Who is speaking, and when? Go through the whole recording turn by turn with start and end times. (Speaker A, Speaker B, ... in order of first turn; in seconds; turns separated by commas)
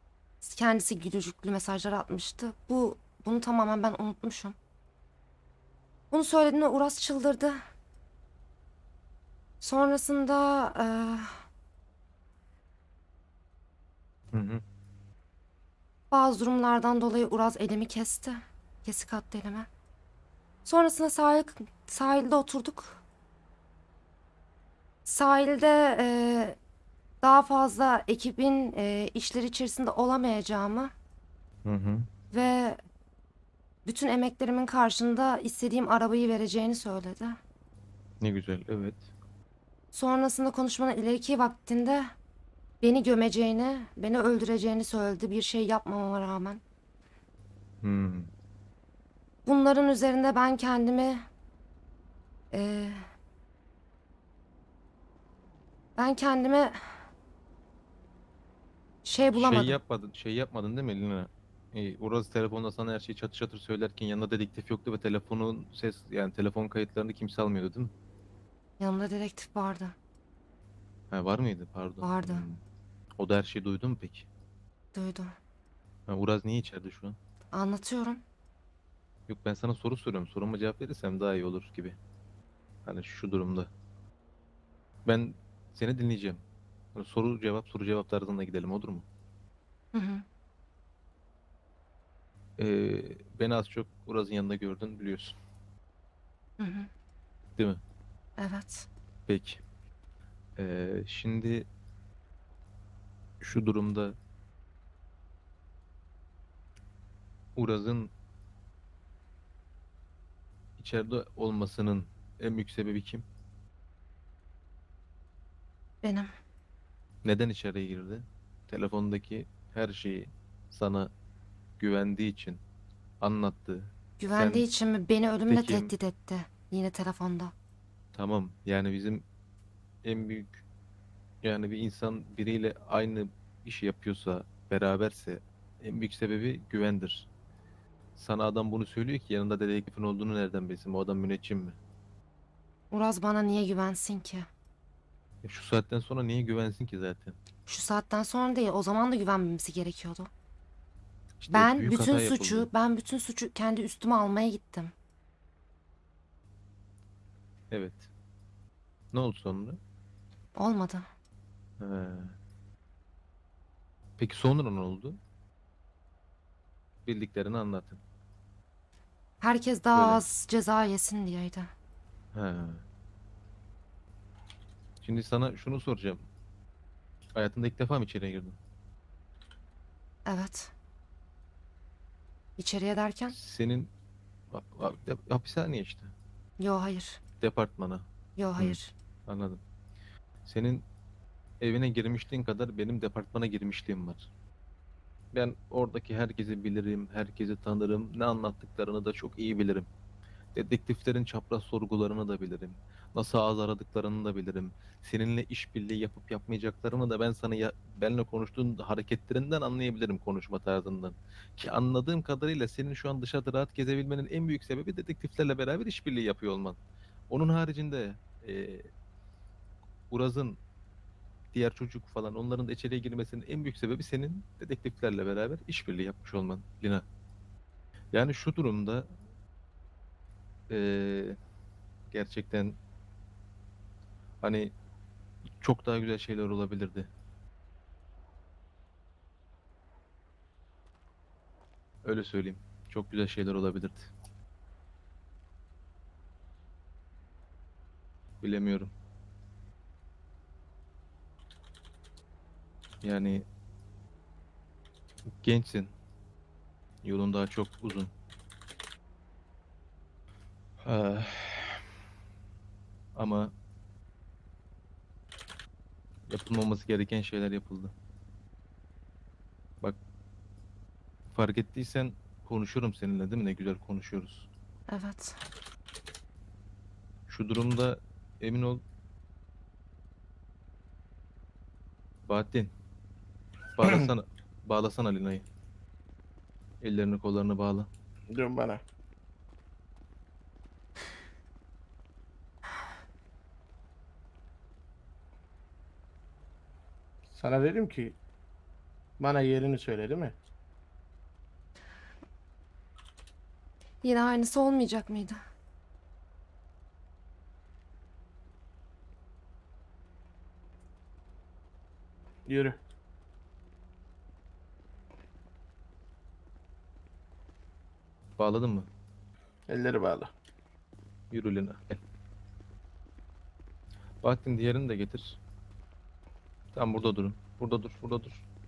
Speaker A: 0.4-4.6, Speaker A: 6.1-7.6, Speaker A: 9.6-11.5, Speaker B: 14.3-14.6, Speaker A: 16.1-19.7, Speaker A: 20.6-23.0, Speaker A: 25.1-26.6, Speaker A: 27.2-30.9, Speaker B: 31.6-32.1, Speaker A: 32.3-32.8, Speaker A: 33.9-37.4, Speaker B: 38.2-39.1, Speaker A: 39.9-42.1, Speaker A: 42.8-46.6, Speaker B: 47.8-48.3, Speaker A: 49.5-51.3, Speaker A: 52.5-53.0, Speaker A: 56.0-56.7, Speaker A: 59.0-59.8, Speaker B: 59.4-67.9, Speaker A: 68.8-70.0, Speaker B: 71.1-72.6, Speaker A: 72.0-72.5, Speaker B: 73.2-74.3, Speaker A: 74.9-75.3, Speaker B: 76.1-77.2, Speaker A: 77.5-78.2, Speaker B: 79.3-82.0, Speaker B: 82.8-83.7, Speaker B: 85.1-89.1, Speaker A: 89.9-90.2, Speaker B: 92.6-95.4, Speaker A: 96.6-96.9, Speaker B: 97.6-97.8, Speaker A: 98.4-98.9, Speaker B: 99.3-99.6, Speaker B: 100.6-101.7, Speaker B: 103.4-104.2, Speaker B: 107.6-108.1, Speaker B: 110.8-113.3, Speaker A: 116.0-116.3, Speaker B: 117.2-121.1, Speaker B: 121.8-122.6, Speaker B: 123.2-124.7, Speaker A: 124.2-127.5, Speaker B: 125.5-125.9, Speaker B: 128.1-129.2, Speaker B: 130.0-130.6, Speaker B: 131.4-137.3, Speaker B: 138.2-141.8, Speaker A: 142.9-144.5, Speaker B: 145.4-147.4, Speaker A: 147.7-150.3, Speaker B: 151.4-152.7, Speaker A: 151.5-154.9, Speaker B: 157.7-158.1, Speaker B: 159.1-159.8, Speaker A: 160.6-161.1, Speaker B: 161.8-162.4, Speaker B: 164.2-165.2, Speaker B: 167.0-168.0, Speaker A: 169.4-171.7, Speaker B: 169.9-170.2, Speaker B: 172.3-172.8, Speaker B: 175.0-176.2, Speaker B: 177.3-178.6, Speaker A: 180.3-180.7, Speaker A: 182.6-183.4, Speaker B: 183.3-183.9, Speaker B: 184.5-186.1, Speaker A: 186.6-187.2, Speaker B: 187.4-188.1, Speaker A: 188.4-188.9, Speaker B: 188.6-189.6, Speaker B: 190.4-190.8, Speaker B: 191.6-194.3, Speaker B: 195.3-199.9, Speaker B: 200.6-216.8, Speaker B: 217.3-218.9, Speaker B: 220.1-220.6, Speaker B: 221.5-227.1, Speaker B: 228.1-229.1, Speaker B: 230.7-231.4, Speaker B: 232.1-232.8, Speaker B: 234.4-234.7, Speaker B: 235.6-237.1, Speaker B: 242.0-244.1, Speaker B: 248.4-248.9, Speaker B: 253.0-253.5, Speaker B: 255.4-255.9, Speaker B: 257.0-258.1, Speaker B: 260.8-261.8, Speaker B: 263.1-263.5, Speaker B: 266.3-267.9, Speaker B: 271.3-274.5, Speaker A: 274.9-275.4, Speaker B: 277.3-278.8, Speaker B: 282.3-282.7, Speaker B: 283.7-285.5, Speaker B: 286.8-287.9, Speaker C: 288.3-288.8, Speaker C: 297.3-298.2, Speaker C: 299.2-300.4, Speaker A: 304.0-305.4, Speaker C: 312.5-312.8, Speaker B: 318.4-318.9, Speaker C: 319.7-320.3, Speaker B: 321.3-322.0, Speaker B: 324.2-325.4, Speaker B: 326.7-328.4